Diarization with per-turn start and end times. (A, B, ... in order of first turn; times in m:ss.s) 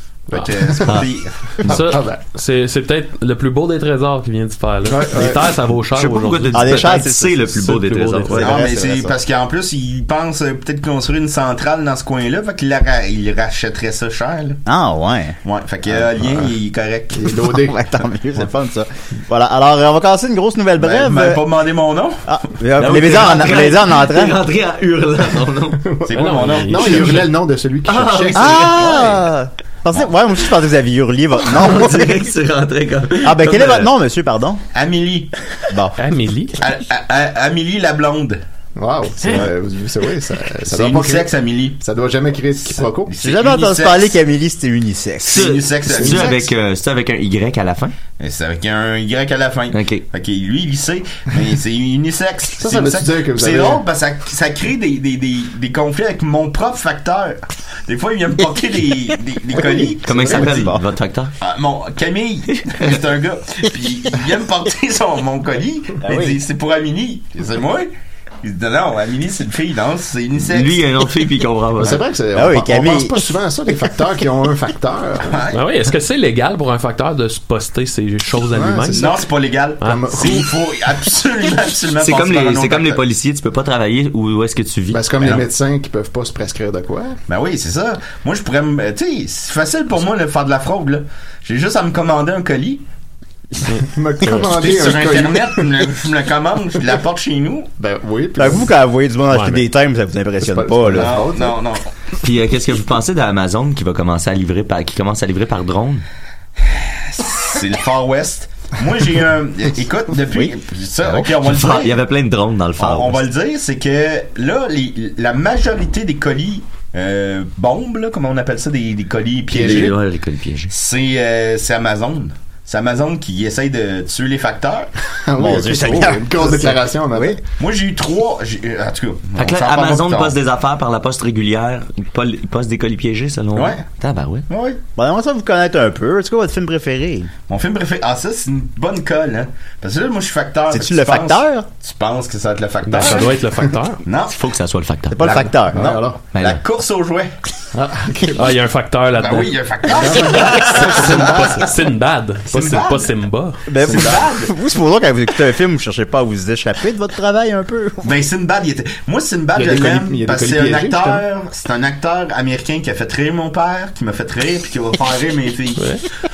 0:00.3-0:01.3 A
0:00.4-0:01.0 B
0:01.6-0:02.2 B
0:01.6-0:08.6 C
0:04.8-0:05.5 B
0:06.0-0:08.6 D
0:06.5-0:07.4 E
0:08.3-0:09.2 E
0:08.4-0:14.6 A
0:14.7-0:15.4 E
0:15.4-0:17.3 A
0:17.1-0:17.9 B
0:17.3-0:21.4 E
0:20.8-0:22.2 A
0:22.3-0:24.4 E
0:22.8-0:25.8 D
0:25.9-0:29.0 B
0:26.1-0:27.3 A
0:26.1-0:27.3 C
0:27.8-0:29.1 D
0:28.4-0:32.3 E
0:31.5-0:33.9 D
0:33.2-0:34.6 E
0:34.7-0:35.3 A
0:35.7-0:36.0 E
0:36.0-0:36.6 C
0:36.6-0:38.4 A
0:38.8-0:43.1 B
0:40.7-0:41.8 A
0:42.8-0:44.1 A
0:43.2-0:45.6 E
0:45.3-0:47.9 D
0:45.3-0:46.4 A
0:45.9-0:46.5 B
0:48.2-1:00.7 A
0:49.7-0:50.1 D
0:52.6-0:53.8 B
0:59.5-1:00.8 E
1:00.0-1:01.3 D
1:01.4-1:07.9 A
1:06.1-1:06.4 E
1:08.4-1:10.8 A
1:10.5-1:12.0 D
1:11.8-1:15.4 B
1:12.3-1:13.3 E
1:15.3-1:15.6 A
1:15.5-1:19.1 C
1:18.5-1:19.3 B
1:18.9-1:23.0 A
1:19.8-1:20.5 B
1:22.0-1:25.4 D
1:24.9-1:27.2 B
1:27.3-1:32.8 A
1:33.7-1:34.5 C
1:33.7-1:35.9 B
1:34.5-1:37.7 A
1:37.8-1:38.7 B
1:38.4-1:41.2 E
1:39.3-1:39.6 C
1:40.4-1:41.6 B
1:41.0-1:41.9 A
1:42.2-1:46.0 D
1:46.7-1:52.0 A
1:51.4-1:53.2 D
1:52.8-2:00.0 A
1:59.5-1:59.9 B
1:59.5-2:00.7 D
2:00.7-2:04.9 A
2:05.2-2:07.4 B
2:05.4-2:07.4 E
2:07.6-2:10.4 A
2:09.4-2:14.5 D
2:13.5-2:13.8 A
2:14.5-2:14.8 A
2:15.0-2:17.3 E
2:17.5-2:23.4 A
2:20.7-2:21.7 E
2:22.8-2:24.0 C
2:24.0-2:24.4 A
2:24.3-2:25.4 D
2:25.1-2:25.9 E
2:25.2-2:27.3 A
2:25.7-2:26.2 B
2:26.3-2:26.6 D
2:27.7-2:28.6 B
2:28.4-2:29.5 C
2:29.2-2:31.7 A
2:29.9-2:31.7 B
2:30.7-2:33.6 C
2:32.5-2:33.1 A
2:33.7-2:38.1 E
2:33.8-2:34.5 A
2:33.8-2:34.3 B
2:38.0-2:46.0 A
2:39.5-2:41.2 B
2:45.8-2:46.0 C